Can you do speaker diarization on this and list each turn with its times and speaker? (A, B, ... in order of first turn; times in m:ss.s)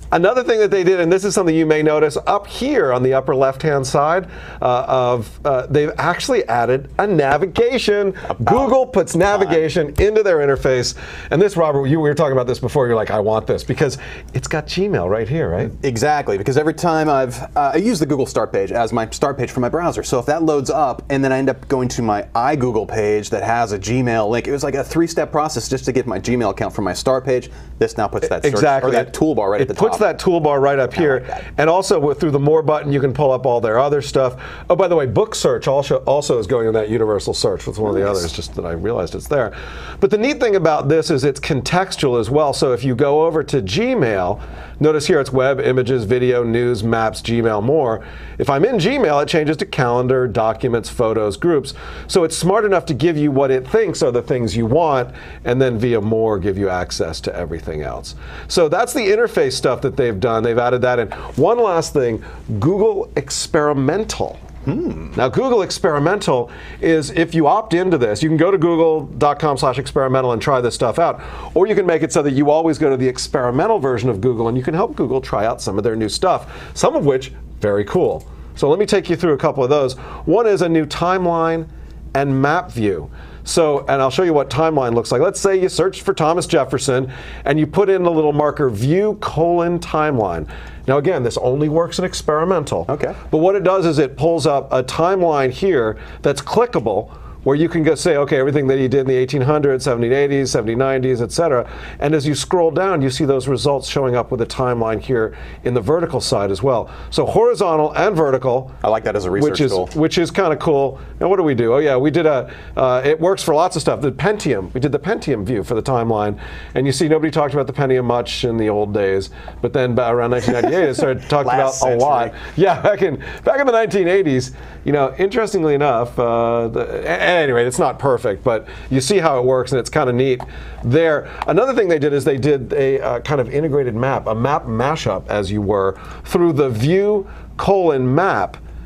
0:00.1-0:15.7 A
0:08.3-0:08.7 B
0:09.3-0:09.6 B
0:15.8-0:30.0 B
0:28.2-1:04.4 A
0:31.0-0:31.4 B
1:04.6-1:05.2 B
1:05.1-1:48.7 A
1:32.9-1:33.2 B
1:48.8-1:49.9 B
1:49.3-2:18.6 A
2:01.4-2:02.3 B